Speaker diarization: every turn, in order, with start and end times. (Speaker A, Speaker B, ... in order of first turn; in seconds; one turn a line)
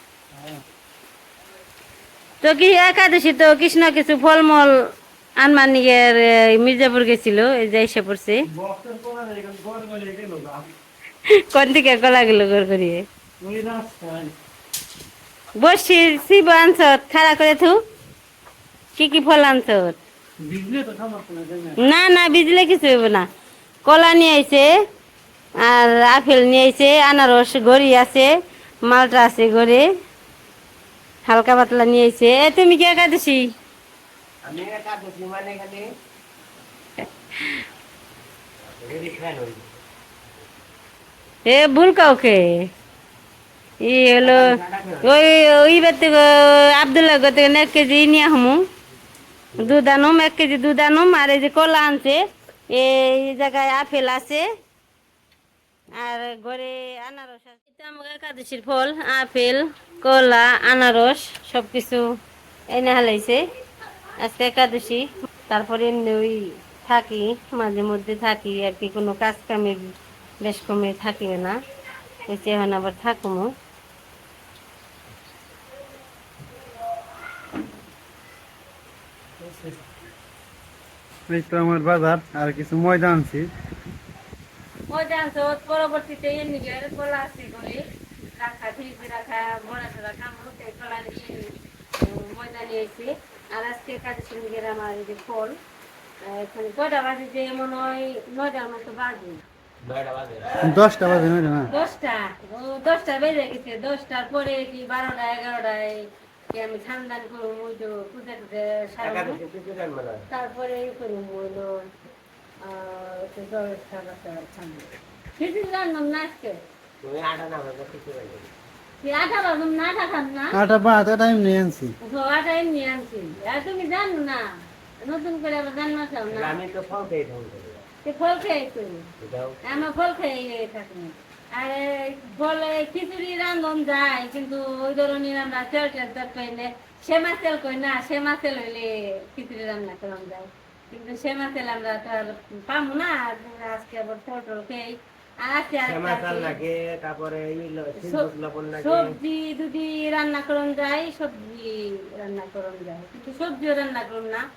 Speaker A: 2.4-8.4
Speaker B: 8.5-10.7
Speaker A: 11.5-13.1
Speaker B: 13.4-14.3
Speaker A: 15.6-17.8
Speaker A: 19.0-20.0
Speaker B: 20.4-21.8
Speaker A: 21.8-23.3
Speaker A: 23.9-24.7
Speaker A: 25.6-28.3
Speaker A: 28.9-29.9
Speaker A: 31.3-33.5
Speaker C: 34.5-35.9
Speaker C: 38.7-39.7
Speaker A: 41.5-42.7
Speaker A: 43.8-48.6
Speaker C: 44.2-45.1
Speaker A: 49.6-54.5
Speaker A: 56.0-62.1
Speaker A: 62.7-63.4
Speaker A: 64.2-71.6
Speaker A: 72.3-73.5
Speaker B: 81.3-83.5
Speaker A: 84.9-95.6
Speaker A: 96.2-99.4
Speaker C: 99.8-100.6
Speaker B: 100.6-101.7
Speaker A: 101.7-109.4
Speaker C: 109.0-110.2
Speaker A: 110.3-111.8
Speaker A: 112.6-116.6
Speaker C: 117.0-118.5
Speaker A: 119.0-120.6
Speaker B: 120.5-121.9
Speaker A: 122.0-124.5
Speaker A: 125.0-126.6
Speaker C: 126.3-127.8
Speaker A: 128.0-129.1
Speaker C: 129.2-129.6
Speaker A: 129.6-146.6
Speaker C: 145.8-149.2
Speaker A: 148.0-154.4